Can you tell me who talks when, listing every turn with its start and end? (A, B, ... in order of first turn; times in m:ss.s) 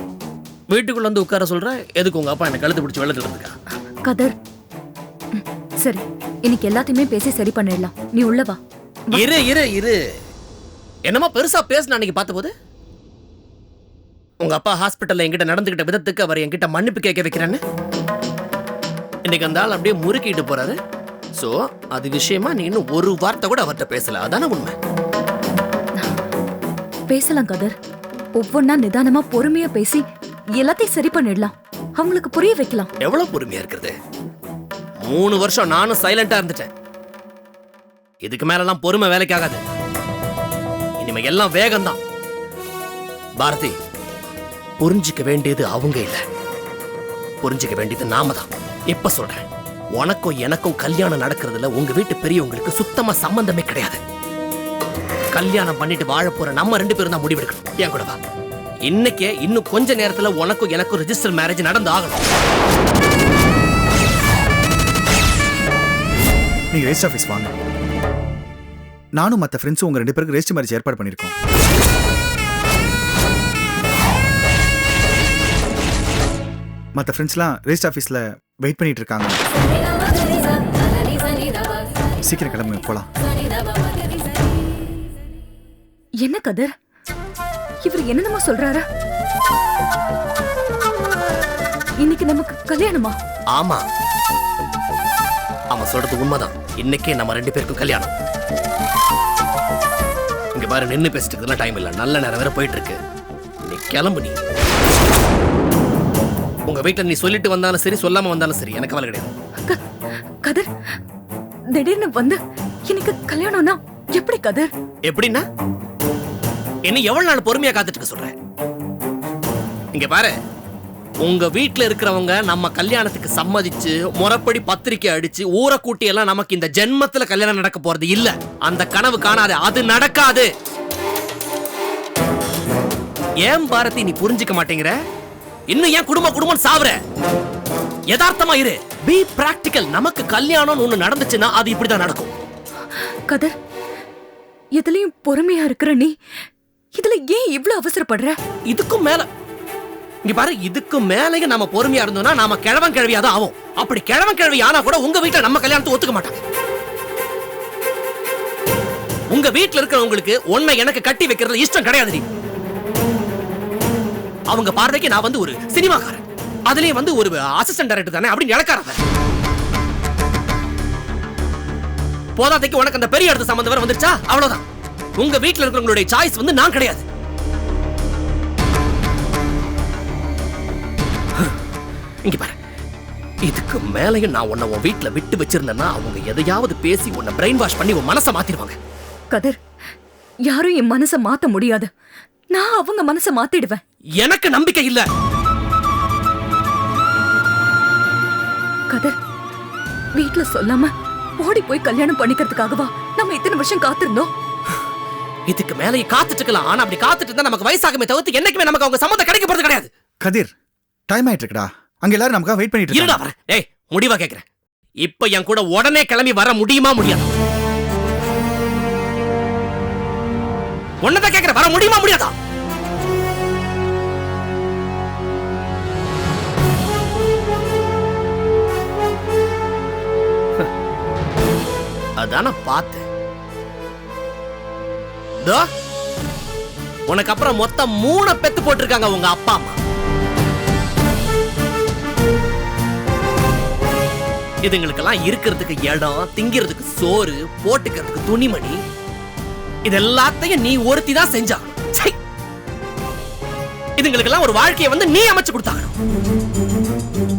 0:00.7-0:03.5 A
0:04.1-0:04.4 B
0:05.3-0:08.6 B
0:09.1-0:10.0 A
0:11.1-0:12.5 A
0:14.4-0:17.6 A
0:19.3-0:20.8 A
0:21.4-0:24.8 A
0:27.1-0:27.8 B
0:28.4-0:30.0 B
0:30.6-0:32.9 B
0:33.0-0:34.0 A
0:35.1-0:36.7 A
0:38.2-0:39.6 A
0:41.0-0:42.0 A
0:43.4-0:43.7 A
0:44.8-0:46.2 A
0:47.4-0:49.4 A
0:50.0-0:54.0 A
0:55.3-0:58.2 A
0:58.9-1:02.2 A
1:06.7-1:07.5 C
1:09.2-1:11.3 C
1:17.0-1:19.4 C
1:22.2-1:23.1 C
1:26.2-1:26.7 B
1:27.8-1:28.8 B
1:32.0-1:33.2 B
1:33.6-1:33.8 A
1:35.7-1:38.1 A
1:40.6-1:43.0 A
1:43.7-1:44.4 A
1:46.7-1:49.3 A
1:51.7-1:54.7 B
1:55.1-1:55.4 A
1:56.9-1:58.3 A
1:59.9-2:00.3 A
2:01.2-2:10.5 A
2:13.4-2:14.9 A
2:15.7-2:17.0 A
2:18.1-2:22.3 A
2:23.3-2:23.5 B
2:24.8-2:26.1 B
2:26.9-2:28.4 B
2:28.7-2:29.3 A
2:30.3-2:36.4 A
2:39.3-2:42.2 A
2:44.5-2:49.0 A
2:52.4-2:54.6 A
2:55.2-2:57.0 A
3:02.3-3:02.6 A
3:03.4-3:08.8 A
3:09.3-3:09.6 B
3:10.5-3:11.9 B
3:12.5-3:13.8 B
3:14.2-3:15.1 A
3:20.2-3:24.3 B
3:25.5-3:29.9 A
3:30.2-3:30.5 C
3:31.1-3:33.2 C
3:32.9-3:34.4 A
3:35.0-3:37.3 A
3:41.0-3:42.3 A
3:52.2-3:53.0 A
3:57.1-3:59.8 A
4:04.6-4:08.8 A
4:09.8-4:12.2 A
4:14.0-4:15.9 A